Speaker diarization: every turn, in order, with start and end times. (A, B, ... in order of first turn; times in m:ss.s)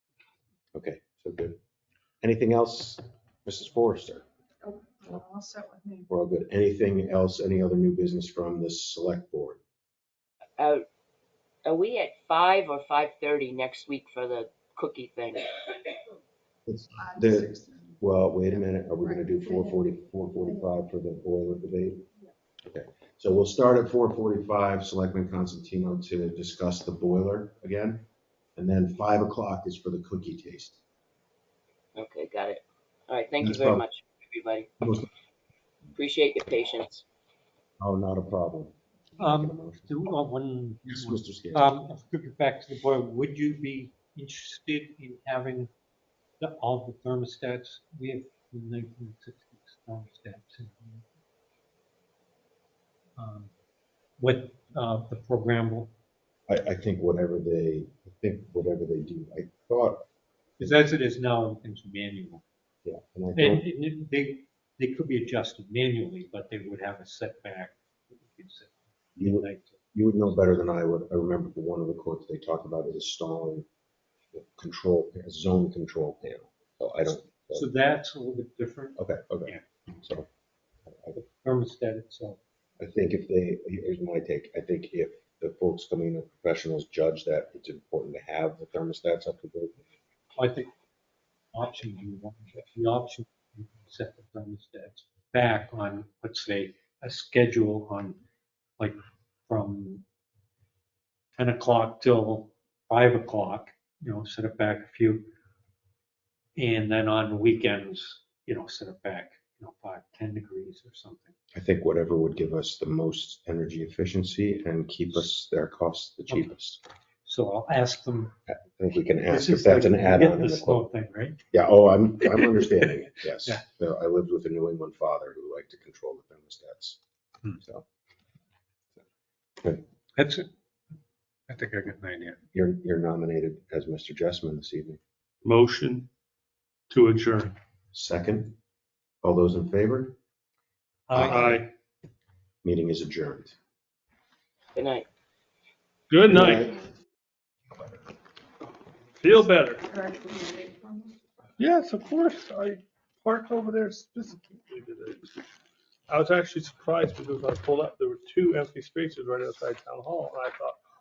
0:00.7-0:01.6 A
0:02.2-0:04.2 A
0:04.6-0:06.1 B
0:06.1-0:09.6 A
0:10.6-0:10.8 C
0:11.6-0:15.5 C
0:16.6-0:22.0 A
0:17.0-0:18.0 B
0:19.0-0:19.8 B
0:22.6-0:30.8 A
0:32.0-0:34.7 C
0:33.4-0:33.8 A
0:34.8-0:35.1 A
0:35.9-0:37.0 C
0:37.8-0:40.0 A
0:39.2-0:45.7 D
0:40.8-0:41.8 A
0:46.4-0:51.0 D
0:53.2-0:53.5 D
0:54.2-0:55.9 D
0:56.5-1:00.0 A
1:00.6-1:02.4 D
1:02.8-1:03.7 A
1:03.4-1:09.8 D
1:09.2-1:13.6 A
1:14.3-1:17.7 A
1:17.5-1:19.6 D
1:19.0-1:20.3 A
1:20.9-1:21.2 A
1:21.2-1:22.4 D
1:22.8-1:29.9 A
1:30.3-1:30.7 D
1:31.5-1:38.2 D
1:38.8-1:40.0 D
1:41.3-1:45.3 D
1:46.6-1:51.3 D
1:51.5-1:56.8 A
1:57.2-1:58.3 D
1:58.5-2:00.9 A
1:59.2-2:01.4 D
2:01.5-2:07.0 A
2:07.6-2:07.8 A
2:10.2-2:10.5 D
2:11.5-2:12.4 D
2:12.5-2:15.0 A
2:15.4-2:16.1 E
2:16.9-2:17.5 E
2:17.9-2:18.6 A
2:19.2-2:20.2 A
2:21.1-2:21.6 D
2:21.1-2:21.7 A
2:21.2-2:21.7 E
2:22.6-2:23.6 A
2:24.7-2:25.0 C
2:26.1-2:26.7 E
2:26.3-2:26.8 A
2:29.2-2:29.8 E
2:29.9-2:31.1 B
2:31.6-2:35.3 E
2:36.1-2:40.8 E